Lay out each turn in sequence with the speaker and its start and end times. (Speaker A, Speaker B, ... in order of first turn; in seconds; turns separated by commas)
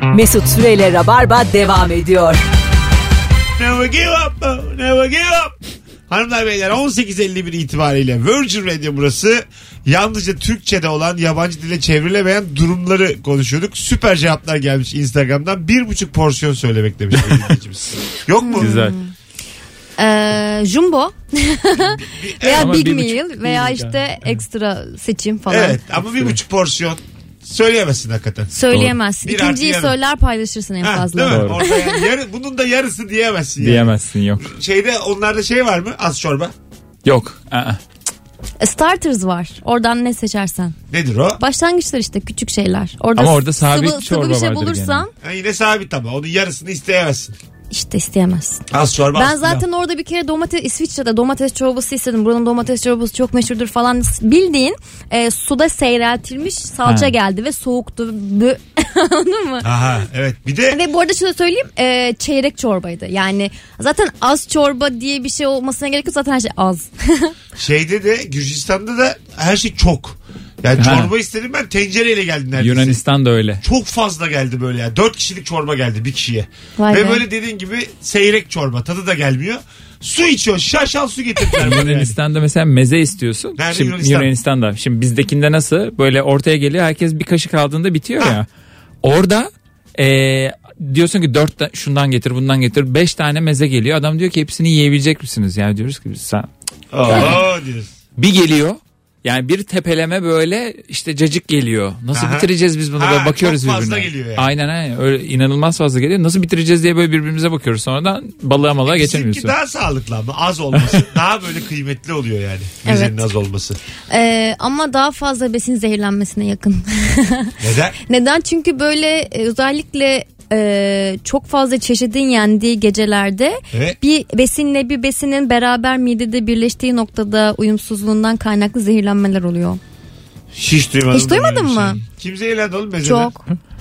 Speaker A: 0.1-2.4, Speaker B: 3.6-5.5, Speaker B: 6.1-18.9, Speaker C: 18.4-19.1, Speaker D: 18.6-18.9, Speaker C: 20.0-25.8, Speaker B: 21.8-22.7, Speaker D: 22.6-24.4, Speaker B: 25.5-28.5, Speaker C: 28.5-32.1, Speaker D: 28.7-29.0, Speaker B: 29.2-29.9, Speaker B: 30.8-36.5, Speaker D: 31.3-31.6, Speaker D: 33.6-34.4, Speaker D: 37.0-37.8, Speaker C: 38.6-40.8, Speaker B: 40.9-41.4, Speaker C: 41.4-45.1, Speaker D: 43.2-45.1, Speaker B: 45.2-47.3, Speaker C: 47.7-48.6, Speaker B: 48.7-49.6, Speaker C: 49.1-59.7, Speaker D: 56.8-57.1, Speaker B: 59.6-60.8, Speaker C: 60.7-67.3, Speaker B: 67.6-73.0, Speaker D: 70.8-71.1, Speaker D: 72.6-73.6, Speaker B: 73.6-82.2, Speaker C: 76.8-77.2, Speaker D: 81.6-88.5, Speaker B: 83.6-84.3, Speaker D: 89.0-96.5, Speaker B: 96.9-97.9, Speaker D: 97.1-97.4, Speaker D: 98.2-109.5, Speaker B: 102.1-104.5, Speaker B: 108.8-113.8, Speaker C: 112.8-113.2, Speaker C: 114.1-117.5, Speaker B: 117.6-118.0, Speaker C: 118.0-129.8, Speaker B: 123.7-124.0, Speaker B: 130.5-133.3, Speaker C: 131.1-132.0, Speaker C: 133.0-133.4